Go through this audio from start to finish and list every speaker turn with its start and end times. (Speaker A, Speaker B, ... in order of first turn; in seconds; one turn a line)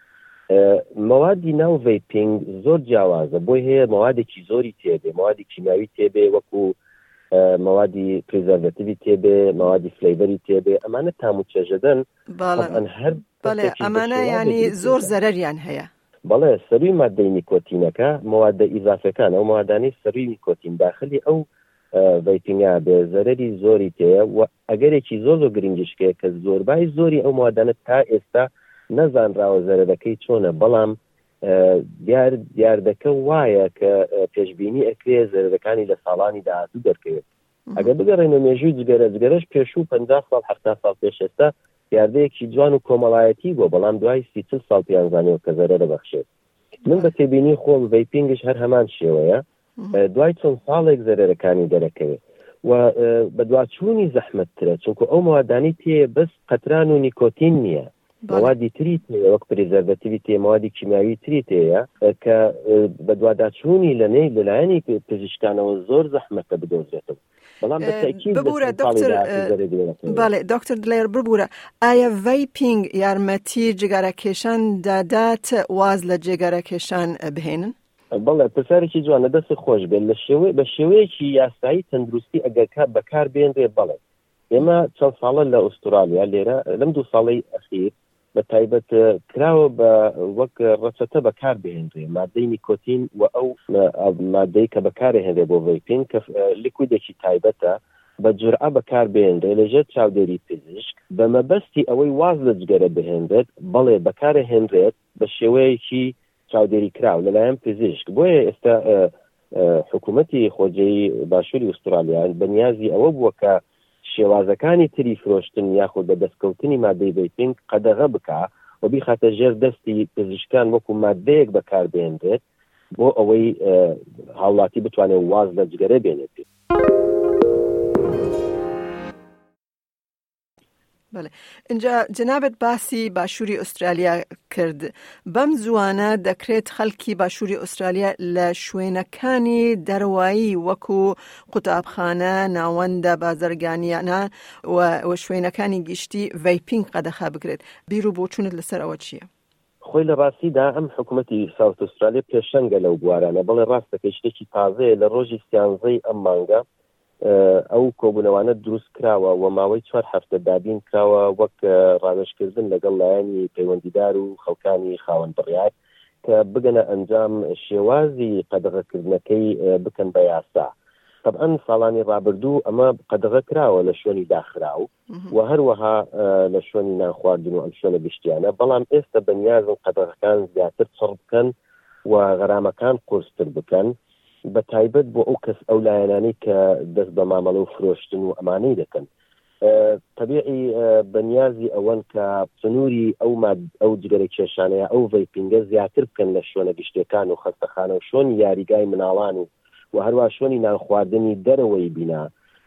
Speaker A: 0.5-6.8
Speaker A: 7.3-15.1
Speaker B: 12.3-12.8
Speaker B: 13.4-15.9
Speaker A: 16.2-37.2
Speaker B: 37.7-38.0
Speaker A: 37.8-46.2
Speaker A: 46.9-70.3
Speaker B: 58.2-58.5
Speaker B: 67.8-69.5
Speaker B: 70.1-77.7
Speaker A: 78.1-84.0
Speaker A: 84.5-122.4
Speaker A: 123.0-126.4
Speaker B: 131.1-149.3
Speaker A: 149.8-156.6
Speaker A: 157.2-165.7
Speaker A: 166.2-170.7
Speaker A: 171.2-181.5
Speaker A: 182.1-183.9
Speaker A: 184.5-189.1
Speaker A: 189.6-202.3